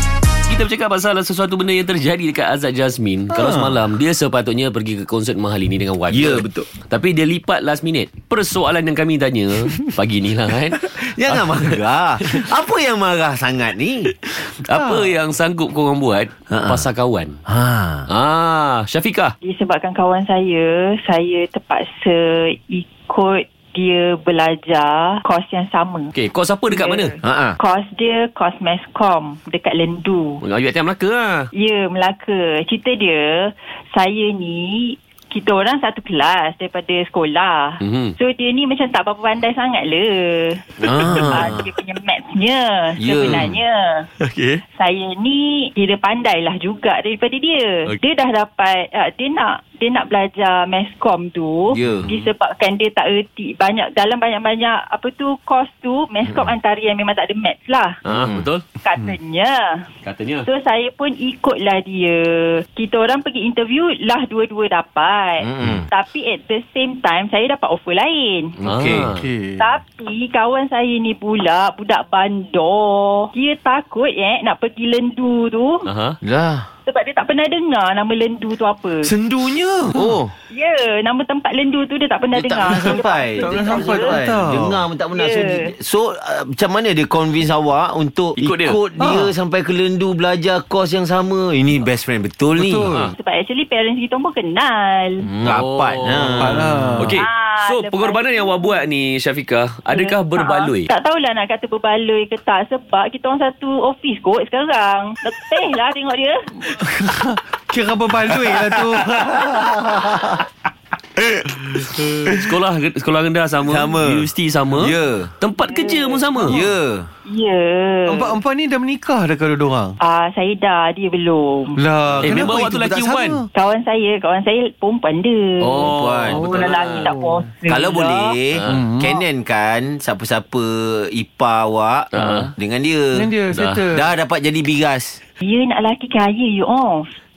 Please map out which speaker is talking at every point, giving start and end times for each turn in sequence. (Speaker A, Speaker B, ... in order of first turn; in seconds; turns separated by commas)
Speaker A: 0.5-12.5, Speaker B: 3.3-3.8, Speaker B: 6.1-6.7, Speaker B: 10.8-14.1, Speaker A: 14.2-17.4, Speaker C: 14.7-15.1, Speaker B: 16.5-16.9, Speaker B: 17.5-18.1, Speaker A: 18.1-19.3, Speaker D: 19.4-26.1, Speaker A: 26.1-27.1, Speaker D: 26.7-30.4, Speaker B: 27.2-27.6, Speaker A: 30.4-31.5, Speaker D: 31.5-44.1, Speaker A: 37.8-38.1, Speaker B: 40.8-41.7, Speaker A: 41.0-41.5, Speaker B: 43.0-43.5, Speaker A: 44.2-44.6, Speaker D: 44.7-58.0, Speaker B: 51.7-52.1, Speaker A: 58.0-58.6, Speaker B: 58.1-58.5, Speaker D: 58.8-59.9, Speaker A: 60.0-60.5, Speaker D: 60.4-68.6, Speaker B: 65.4-65.9, Speaker B: 68.6-69.1, Speaker A: 68.6-69.3, Speaker C: 68.9-69.8, Speaker D: 69.6-75.9, Speaker A: 75.8-76.2, Speaker B: 76.2-76.7, Speaker D: 76.9-79.1, Speaker C: 79.0-80.2, Speaker B: 79.9-80.3, Speaker D: 80.5-84.2, Speaker B: 82.3-92.9, Speaker C: 83.4-84.8, Speaker D: 85.1-85.7, Speaker A: 88.4-88.8, Speaker C: 89.0-89.3, Speaker C: 92.5-93.1, Speaker D: 93.2-95.3, Speaker B: 95.2-96.7, Speaker A: 95.4-100.9, Speaker C: 96.4-97.2, Speaker D: 97.1-98.8, Speaker D: 99.9-106.5, Speaker C: 106.7-110.4, Speaker B: 108.3-110.2, Speaker B: 111.2-112.5, Speaker A: 112.3-116.6, Speaker B: 113.6-115.3, Speaker D: 115.6-116.4, Speaker B: 116.5-117.1, Speaker D: 117.2-118.4, Speaker C: 118.1-120.0, Speaker D: 120.0-121.8, Speaker C: 121.8-123.5, Speaker B: 122.2-122.6, Speaker A: 122.2-123.4, Speaker D: 123.5-127.9, Speaker A: 125.6-127.2, Speaker B: 125.8-126.5, Speaker C: 126.3-128.1, Speaker B: 127.7-133.3, Speaker A: 128.5-128.9, Speaker C: 128.7-129.2, Speaker A: 132.1-132.5, Speaker C: 133.1-134.1, Speaker A: 133.5-133.8, Speaker B: 133.9-135.2, Speaker D: 135.4-137.1